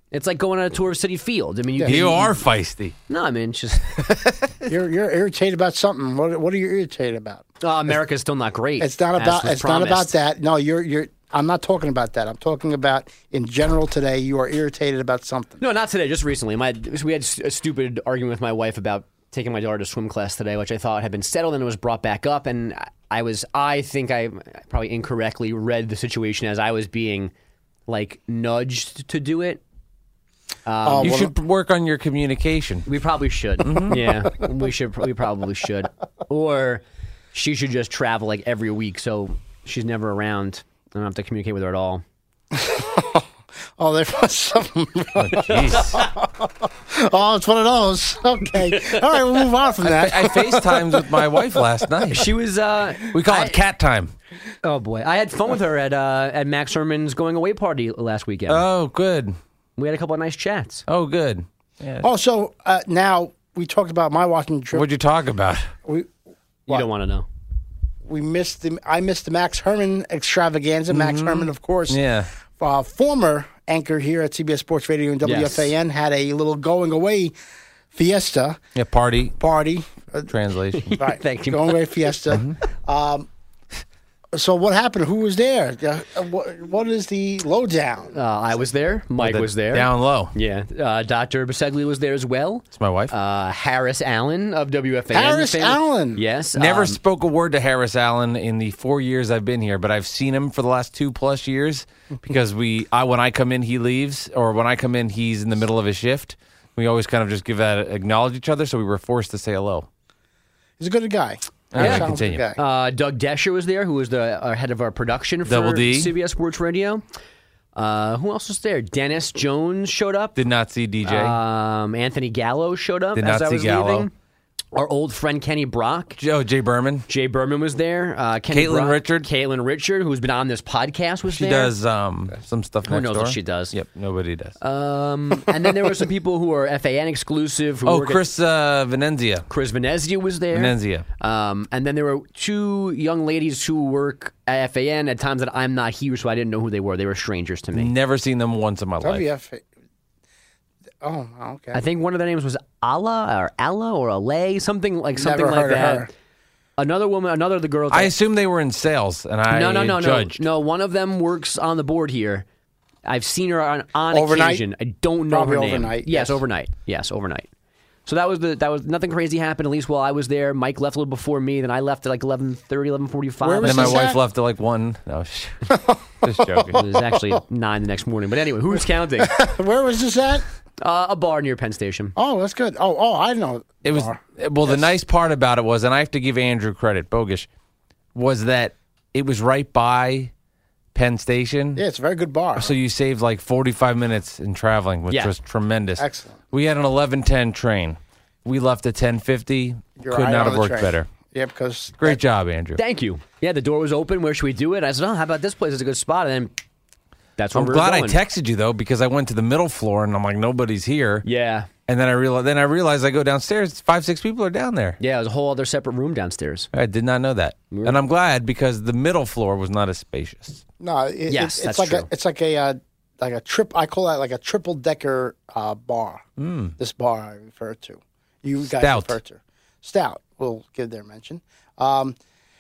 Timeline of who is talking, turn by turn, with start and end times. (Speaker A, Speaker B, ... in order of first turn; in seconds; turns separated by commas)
Speaker A: 0.1-2.3, Speaker B: 1.8-2.2, Speaker C: 1.9-3.0, Speaker A: 3.1-4.0, Speaker C: 4.0-4.5, Speaker B: 4.7-7.5, Speaker A: 7.6-10.2, Speaker B: 8.8-15.6, Speaker A: 15.6-27.3, Speaker A: 27.9-29.6, Speaker A: 30.7-31.2, Speaker B: 30.8-31.3, Speaker C: 31.0-32.9, Speaker A: 32.9-42.0, Speaker C: 33.6-34.0, Speaker B: 42.5-43.3, Speaker B: 43.8-51.6, Speaker C: 45.2-46.0, Speaker C: 49.8-52.3, Speaker A: 52.1-53.6, Speaker C: 53.1-54.1, Speaker A: 54.6-58.6, Speaker C: 58.5-59.4, Speaker A: 59.8-60.9, Speaker C: 60.9-62.1, Speaker B: 62.0-64.9, Speaker C: 64.7-65.7, Speaker B: 65.9-66.1, Speaker A: 66.7-67.3, Speaker B: 68.0-72.0, Speaker C: 70.9-72.3, Speaker B: 72.6-77.3, Speaker A: 75.2-75.7, Speaker B: 77.9-78.6, Speaker C: 78.8-79.4, Speaker B: 79.4-80.3, Speaker C: 80.3-81.0, Speaker A: 80.8-82.1, Speaker B: 81.0-83.3, Speaker C: 82.3-82.6, Speaker B: 84.3-88.2, Speaker A: 88.1-97.0, Speaker C: 89.2-90.3, Speaker C: 92.7-93.1, Speaker B: 95.1-96.2, Speaker C: 96.5-109.9, Speaker B: 110.8-112.6, Speaker C: 111.7-112.4, Speaker A: 111.8-117.0, Speaker C: 115.5-116.1, Speaker A: 117.8-120.4, Speaker C: 120.4-121.4, Speaker A: 121.0-124.1, Speaker C: 123.2-124.1, Speaker A: 124.7-126.2, Speaker C: 126.2-127.1, Speaker A: 127.1-131.7, Speaker C: 128.5-129.3, Speaker C: 131.3-134.6, Speaker A: 132.9-133.7, Speaker A: 134.6-138.2, Speaker C: 137.8-139.5, Speaker A: 139.5-147.9, Speaker C: 140.5-141.1, Speaker C: 147.7-149.2, Speaker B: 149.0-149.6, Speaker B: 151.0-151.8, Speaker A: 151.7-156.1, Speaker B: 155.2-156.1, Speaker A: 156.8-158.1, Speaker C: 157.9-160.4, Speaker A: 159.5-162.5, Speaker A: 163.1-167.5, Speaker B: 164.1-164.6, Speaker B: 165.3-166.4, Speaker A: 168.1-174.1, Speaker B: 173.4-174.2, Speaker C: 173.6-176.8, Speaker B: 175.7-177.4, Speaker A: 176.7-179.4, Speaker B: 179.2-180.4, Speaker A: 180.8-182.2, Speaker B: 182.2-184.9, Speaker C: 183.8-187.5, Speaker C: 188.2-190.3, Speaker C: 190.9-191.8, Speaker B: 191.8-192.8, Speaker C: 192.6-201.1, Speaker B: 196.0-196.4, Speaker B: 200.0-202.2, Speaker C: 202.0-202.8, Speaker A: 202.8-206.5, Speaker A: 207.4-208.2, Speaker C: 207.5-211.2, Speaker A: 211.2-211.7, Speaker C: 211.9-215.0, Speaker A: 215.0-216.7, Speaker C: 216.7-220.6, Speaker A: 217.7-218.0, Speaker B: 220.8-226.2, Speaker A: 221.3-222.1, Speaker C: 226.4-226.8, Speaker B: 226.8-232.2, Speaker C: 228.7-229.2